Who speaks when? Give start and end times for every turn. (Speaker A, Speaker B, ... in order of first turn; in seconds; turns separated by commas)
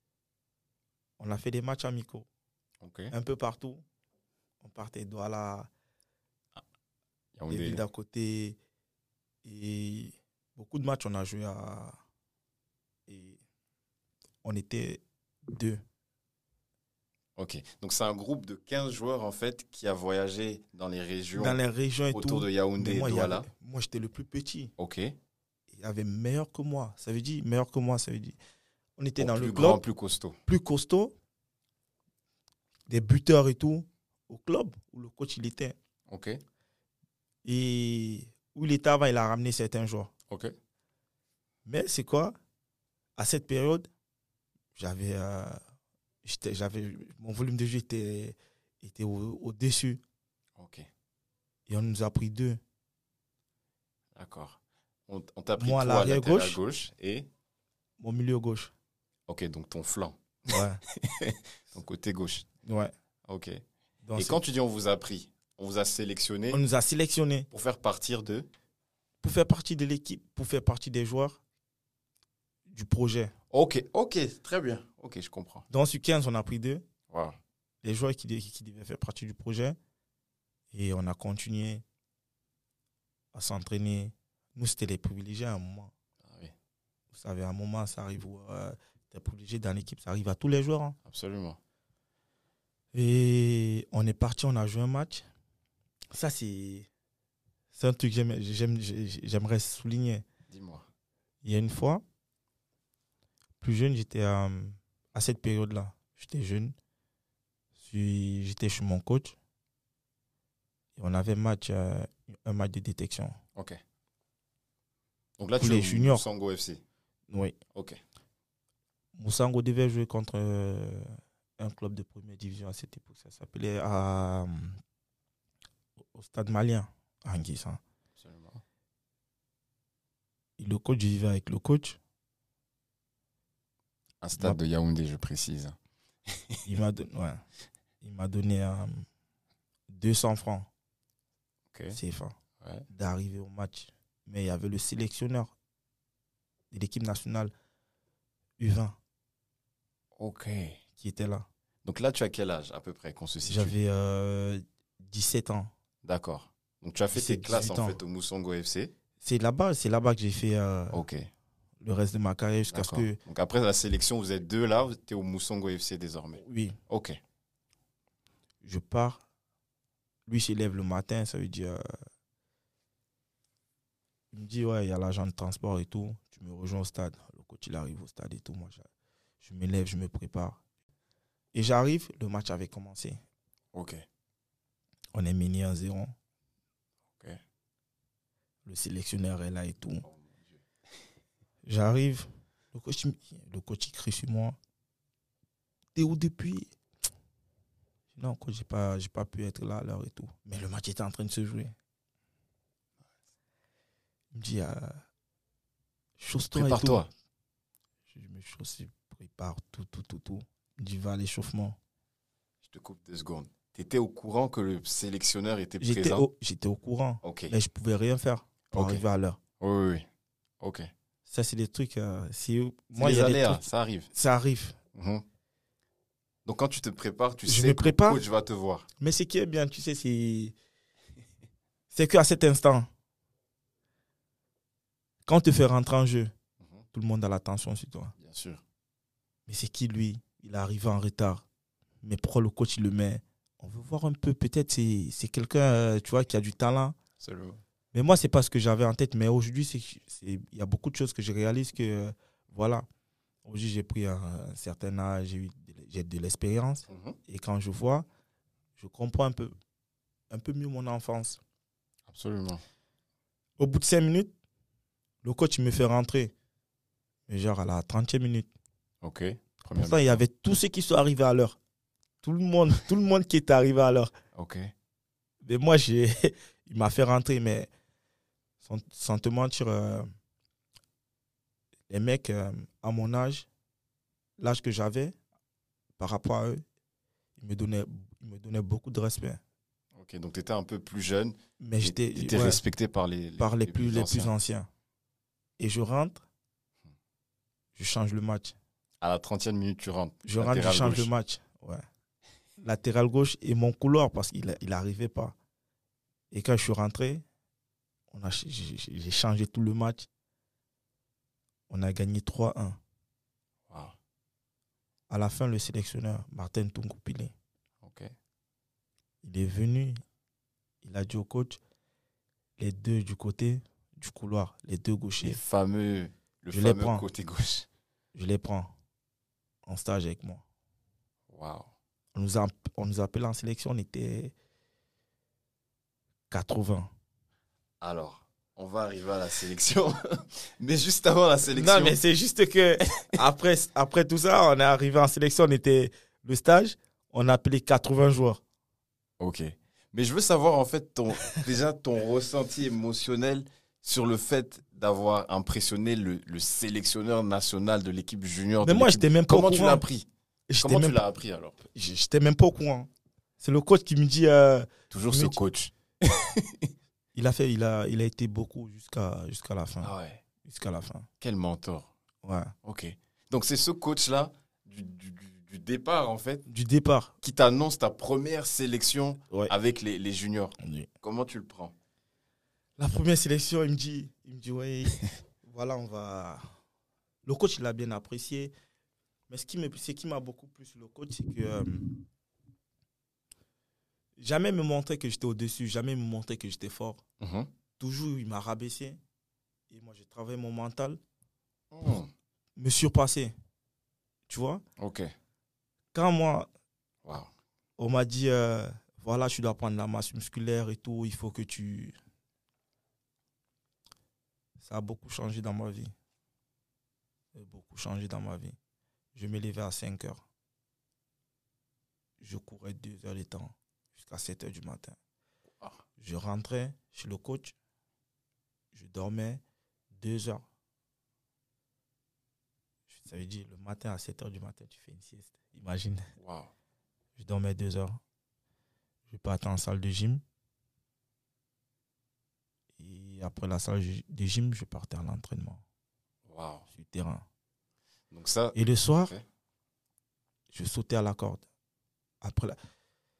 Speaker A: 1.2-2.3, Speaker B: 2.8-3.1, Speaker A: 3.1-3.8, Speaker A: 4.6-5.7, Speaker B: 7.3-7.8, Speaker A: 7.5-8.6, Speaker A: 9.4-12.0, Speaker A: 13.1-13.4, Speaker A: 14.4-15.8, Speaker B: 17.4-21.6, Speaker A: 21.3-24.7, Speaker B: 22.1-23.5, Speaker B: 24.8-25.1, Speaker A: 25.7-28.4, Speaker A: 29.0-29.8, Speaker B: 29.2-30.4, Speaker A: 30.4-31.1, Speaker A: 32.9-35.7, Speaker B: 36.1-36.4, Speaker A: 37.4-40.1, Speaker A: 41.6-42.3, Speaker A: 43.2-43.9, Speaker A: 44.7-45.6, Speaker A: 46.2-50.0, Speaker B: 50.6-50.9, Speaker A: 51.7-52.6, Speaker B: 54.1-57.3, Speaker A: 55.6-56.6, Speaker A: 58.0-58.7, Speaker B: 59.3-62.5, Speaker A: 60.5-60.8, Speaker A: 62.6-62.9, Speaker B: 63.3-63.6, Speaker A: 64.0-64.4, Speaker B: 64.2-66.6, Speaker A: 66.5-67.5, Speaker B: 67.5-68.5, Speaker A: 69.2-71.4, Speaker A: 72.7-73.3, Speaker B: 73.5-75.6, Speaker A: 75.7-76.8, Speaker B: 77.1-77.4, Speaker A: 77.8-79.8, Speaker A: 80.7-81.8, Speaker A: 83.3-85.9, Speaker B: 86.2-86.5, Speaker A: 87.1-91.0, Speaker B: 91.0-91.6, Speaker A: 92.9-95.2, Speaker A: 96.1-96.9, Speaker A: 97.7-100.2, Speaker B: 100.5-100.8, Speaker A: 101.4-102.0, Speaker A: 103.6-106.7, Speaker A: 107.8-109.3, Speaker A: 111.0-113.4, Speaker B: 115.4-116.8, Speaker A: 115.6-116.2, Speaker A: 117.3-117.5, Speaker B: 117.7-118.0, Speaker A: 119.2-124.8, Speaker A: 126.1-127.8, Speaker B: 128.2-128.6, Speaker A: 130.6-132.0, Speaker B: 134.2-135.8, Speaker B: 136.3-136.6, Speaker A: 136.7-137.4, Speaker A: 138.0-139.1, Speaker A: 139.9-140.7, Speaker B: 141.7-142.0, Speaker A: 141.9-142.3, Speaker B: 142.6-142.8, Speaker A: 142.9-145.5, Speaker A: 146.7-147.5, Speaker A: 148.6-148.9, Speaker B: 150.2-150.8, Speaker A: 151.0-151.5, Speaker B: 151.8-153.7, Speaker A: 153.4-155.7, Speaker B: 156.0-158.9, Speaker A: 157.1-158.0, Speaker A: 159.2-161.0, Speaker B: 160.9-161.3, Speaker A: 161.8-163.2, Speaker B: 162.7-167.2, Speaker A: 166.4-166.8, Speaker A: 168.6-169.2, Speaker A: 170.3-171.9, Speaker A: 174.3-178.9, Speaker A: 179.4-180.6, Speaker A: 181.5-183.2, Speaker B: 183.7-184.0, Speaker A: 185.1-186.1, Speaker B: 187.1-187.4, Speaker A: 188.6-190.0, Speaker B: 190.0-190.6, Speaker A: 191.6-194.6, Speaker A: 195.9-196.7, Speaker A: 198.1-201.7, Speaker A: 204.3-205.0, Speaker A: 206.2-207.0, Speaker B: 206.5-207.1, Speaker A: 208.1-211.8, Speaker B: 212.6-216.2, Speaker A: 215.8-219.4, Speaker B: 217.2-217.5, Speaker B: 218.7-219.0, Speaker B: 219.6-220.1, Speaker B: 220.6-220.9, Speaker A: 221.2-224.8, Speaker B: 222.9-224.1, Speaker B: 224.9-225.2, Speaker B: 226.4-228.9, Speaker A: 227.4-228.2, Speaker A: 229.0-230.5, Speaker A: 231.9-232.9, Speaker A: 235.2-236.3, Speaker B: 236.6-236.8, Speaker A: 236.9-238.1, Speaker B: 238.2-238.6, Speaker A: 239.5-241.4, Speaker A: 242.0-246.9, Speaker B: 247.2-247.6, Speaker A: 247.9-252.8, Speaker A: 253.4-258.1, Speaker B: 256.9-257.2, Speaker A: 258.8-259.5, Speaker A: 260.3-261.4, Speaker B: 262.1-262.6, Speaker A: 263.6-264.3, Speaker A: 265.2-266.3, Speaker A: 267.3-268.5, Speaker B: 269.0-270.2, Speaker A: 269.7-271.6, Speaker A: 272.2-274.1, Speaker B: 274.3-274.7, Speaker A: 275.4-277.7, Speaker A: 278.6-280.1, Speaker A: 281.9-283.5, Speaker A: 284.4-285.1, Speaker A: 286.0-286.6, Speaker A: 287.4-289.4, Speaker B: 289.9-294.3, Speaker A: 291.6-292.6, Speaker A: 293.4-294.7, Speaker A: 295.6-296.2, Speaker A: 297.7-298.5, Speaker B: 299.0-301.1, Speaker A: 300.2-301.8, Speaker A: 302.6-305.3, Speaker A: 306.3-307.2, Speaker A: 308.1-310.1, Speaker A: 311.7-312.8, Speaker B: 313.7-313.9, Speaker A: 315.1-317.3, Speaker B: 317.8-318.1, Speaker A: 319.2-320.0, Speaker A: 320.8-321.6, Speaker A: 322.6-325.4, Speaker B: 325.2-327.7, Speaker A: 326.5-327.1, Speaker A: 328.1-328.7, Speaker A: 329.6-330.4, Speaker B: 331.3-331.7, Speaker A: 332.1-334.3, Speaker A: 336.3-336.9, Speaker B: 337.8-342.0, Speaker A: 341.5-348.4, Speaker B: 349.2-360.1, Speaker A: 358.6-359.8, Speaker A: 360.5-361.0, Speaker B: 360.6-361.6, Speaker A: 361.6-362.9, Speaker A: 363.4-365.4, Speaker B: 364.9-366.7, Speaker A: 367.1-371.1, Speaker B: 369.8-370.2, Speaker B: 371.2-371.9, Speaker A: 372.2-372.5, Speaker B: 372.6-376.4, Speaker A: 376.5-377.1, Speaker B: 377.2-381.7, Speaker A: 380.6-380.9, Speaker A: 382.8-386.4, Speaker A: 387.2-388.5, Speaker A: 389.3-391.9, Speaker A: 394.2-397.0, Speaker B: 397.2-397.5, Speaker A: 397.8-399.0, Speaker A: 399.7-401.0, Speaker B: 401.7-402.1, Speaker A: 402.6-403.3, Speaker A: 404.3-404.6, Speaker B: 404.8-405.1, Speaker A: 405.9-406.5, Speaker B: 407.0-407.3, Speaker A: 407.8-411.9, Speaker A: 414.6-415.9, Speaker A: 417.3-418.6, Speaker A: 419.1-420.2, Speaker A: 422.2-424.9, Speaker A: 426.0-427.5, Speaker A: 428.7-429.4, Speaker A: 429.9-430.4, Speaker A: 432.9-436.1, Speaker B: 436.2-436.5, Speaker A: 437.1-438.0, Speaker A: 439.1-440.2, Speaker A: 442.8-445.6, Speaker B: 446.3-446.6, Speaker A: 446.7-447.2, Speaker B: 448.1-449.2, Speaker A: 448.5-449.1, Speaker A: 450.5-451.4, Speaker A: 452.2-452.6